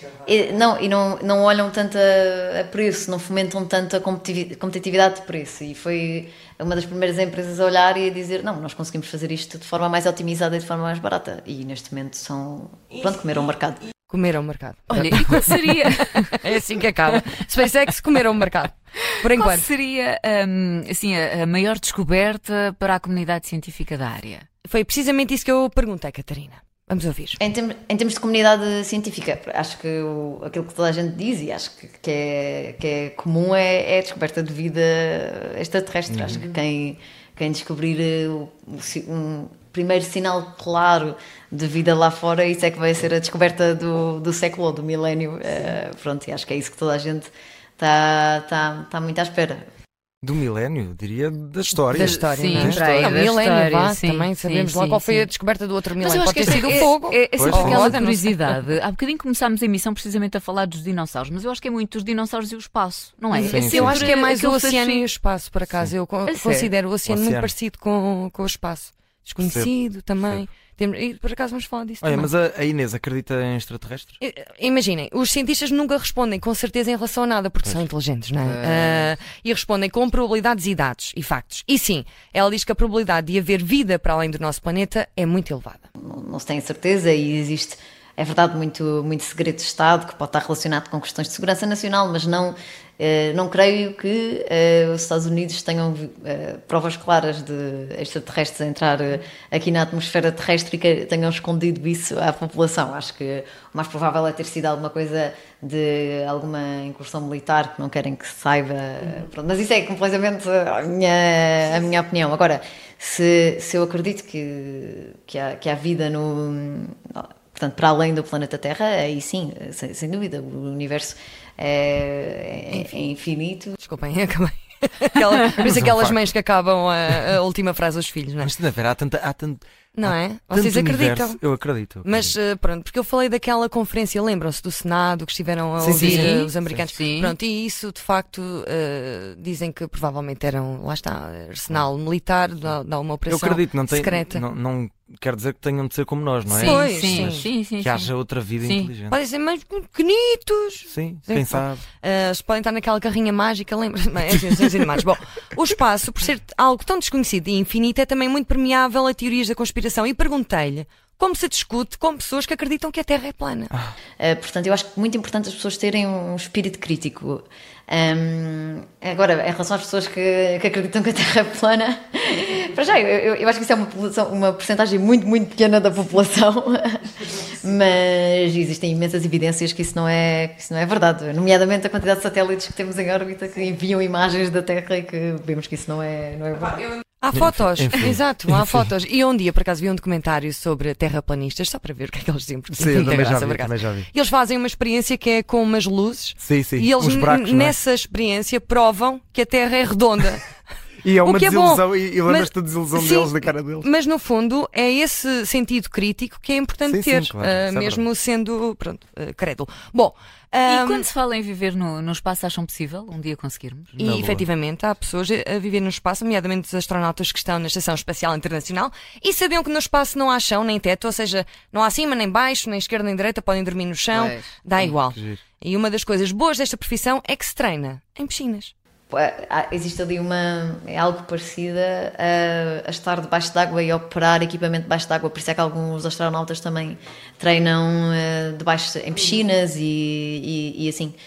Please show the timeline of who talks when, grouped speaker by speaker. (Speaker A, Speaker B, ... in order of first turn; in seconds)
Speaker A: 0.2-13.8, 27.4-49.6, 86.0-123.8, 164.2-186.9, 229.1-241.1
Speaker B: 14.1-19.7, 24.6-27.4, 51.9-58.5, 63.3-72.3, 74.2-85.8, 123.8-128.5, 129.9-131.4, 132.0-144.4, 146.5-147.5, 149.1-163.7, 187.2-200.6, 201.2-211.1, 214.0-228.7
Speaker C: 14.9-16.5, 19.0-24.4, 51.9-55.3, 56.0-65.0, 66.2-66.7, 78.4-79.1, 135.8-137.4, 146.5-148.9, 210.6-214.0, 224.1-224.9
Speaker D: 36.1-36.4, 50.2-53.2, 57.3-58.0, 63.4-64.1, 67.0-67.5, 69.4-69.7, 72.0-74.2, 125.6-126.2, 128.4-132.3, 135.8-136.9, 143.3-149.2, 150.9-151.8, 187.3-188.7, 192.7-194.1, 196.4-197.8, 201.0-203.9, 206.8-208.1, 213.9-214.5, 225.1-225.4